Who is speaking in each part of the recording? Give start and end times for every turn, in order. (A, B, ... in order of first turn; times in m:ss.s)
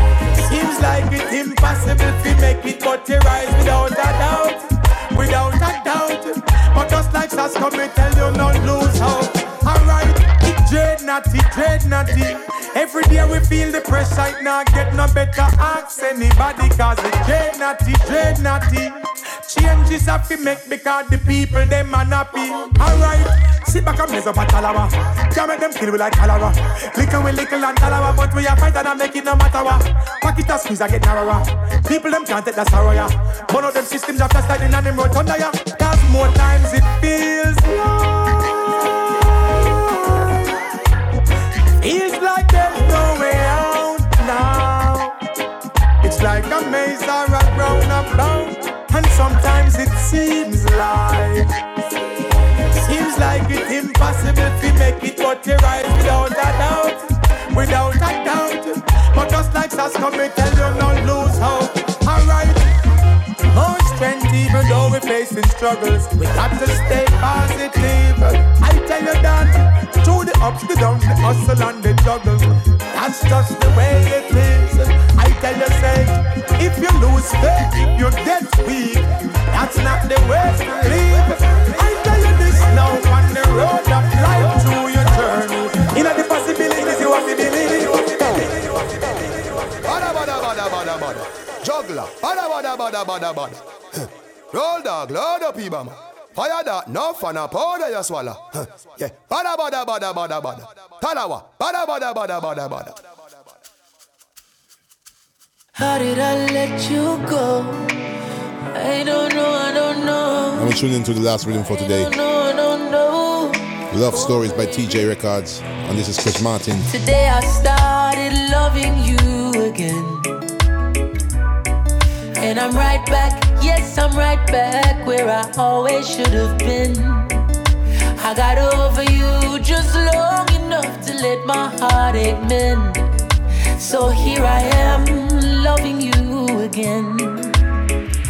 0:00.4-0:04.6 A
0:05.1-0:40.4 A
0:41.8-0:45.1 A
0:46.0-0:51.5 A
0:52.8-0:57.0 A
0:57.5-1:02.7 A
1:03.5-1:29.2 A
1:29.9-1:33.5 B
1:34.5-1:38.4 B
1:39.0-1:42.9 B
1:45.8-1:48.0 C
1:48.7-1:50.8 C
1:50.6-1:52.1 D
1:51.7-1:54.5 C
1:53.9-1:56.9 D
1:56.8-2:00.3 C
2:02.4-2:07.4 C
2:08.2-2:13.1 C
2:13.8-2:17.6 C